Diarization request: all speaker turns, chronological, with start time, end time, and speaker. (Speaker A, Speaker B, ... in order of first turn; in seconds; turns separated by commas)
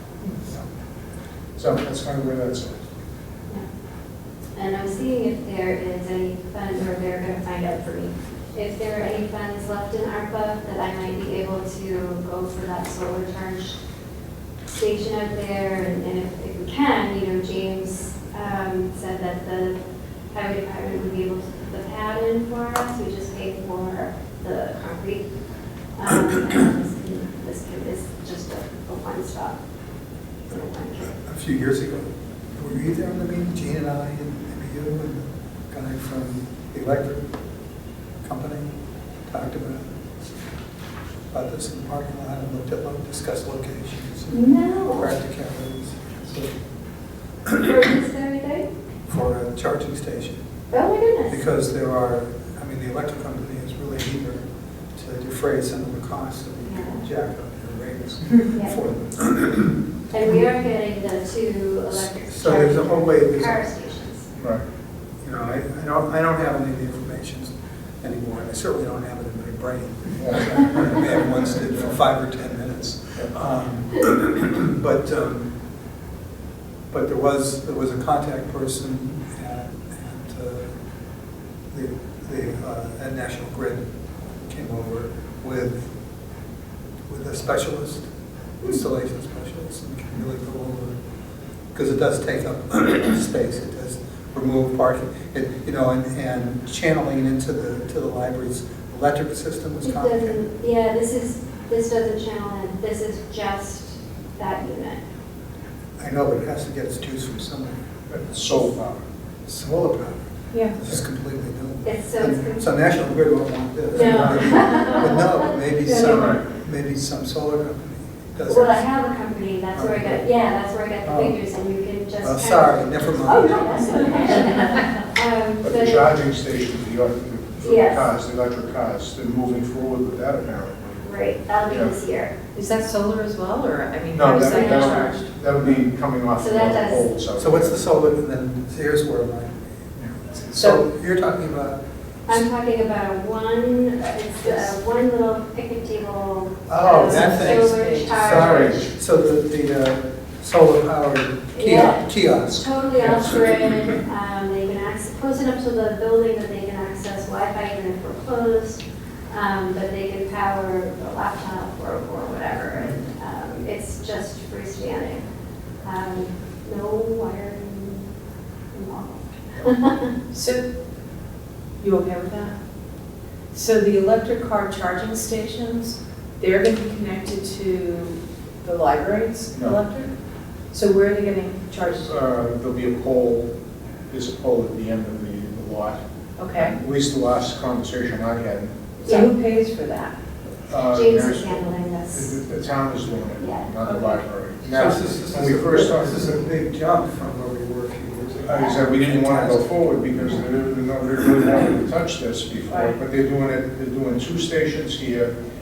Speaker A: 0.4-0.7, Speaker A: 1.6-2.8, Speaker B: 4.5-13.8, Speaker B: 14.7-19.8, Speaker B: 20.3-25.3, Speaker B: 26.0-29.6, Speaker B: 30.5-31.1, Speaker C: 31.1-37.3, Speaker C: 38.2-38.7, Speaker C: 39.3-39.9, Speaker C: 41.3-46.5, Speaker B: 44.3-45.1, Speaker B: 47.5-48.7, Speaker C: 49.1-50.4, Speaker B: 50.7-51.4, Speaker C: 51.3-54.4, Speaker C: 55.0-59.8, Speaker B: 56.6-57.0, Speaker B: 60.1-64.3, Speaker C: 61.9-63.7, Speaker A: 64.3-64.6, Speaker C: 65.2-75.5, Speaker A: 70.2-71.1, Speaker C: 76.9-80.7, Speaker C: 81.7-83.8, Speaker C: 84.5-85.8, Speaker C: 87.1-88.1, Speaker C: 88.6-91.0, Speaker C: 91.7-100.4, Speaker B: 99.8-105.0, Speaker C: 106.0-107.8, Speaker A: 108.1-109.0, Speaker C: 109.5-110.2, Speaker C: 110.7-118.8, Speaker B: 111.8-112.7, Speaker B: 113.9-116.4, Speaker A: 116.0-116.4, Speaker B: 118.5-126.1, Speaker C: 119.7-120.2, Speaker C: 121.0-121.3, Speaker C: 122.2-124.2, Speaker D: 124.0-124.6, Speaker A: 125.6-131.0, Speaker B: 127.6-128.1, Speaker B: 131.0-132.3, Speaker A: 131.6-131.9, Speaker D: 132.5-135.3, Speaker A: 134.1-137.8, Speaker B: 134.4-135.1, Speaker B: 136.4-137.1, Speaker C: 137.4-139.6, Speaker C: 140.3-141.8, Speaker D: 140.5-140.8, Speaker B: 142.3-148.9, Speaker D: 144.4-144.7, Speaker C: 146.7-152.7, Speaker D: 147.0-148.5, Speaker A: 148.2-148.9, Speaker B: 151.5-165.2, Speaker B: 165.8-168.0, Speaker B: 168.7-170.1, Speaker D: 170.3-170.6, Speaker D: 171.8-172.5, Speaker D: 173.5-180.1, Speaker A: 179.5-179.8, Speaker D: 180.7-182.2, Speaker A: 182.0-183.5, Speaker A: 184.1-186.0, Speaker D: 186.4-186.7, Speaker A: 186.6-188.7, Speaker B: 189.0-189.3, Speaker D: 189.0-190.1, Speaker A: 190.7-196.2, Speaker B: 190.9-192.3, Speaker B: 193.4-193.7, Speaker D: 193.9-194.2, Speaker C: 194.6-199.7, Speaker A: 198.4-205.3, Speaker D: 202.7-202.9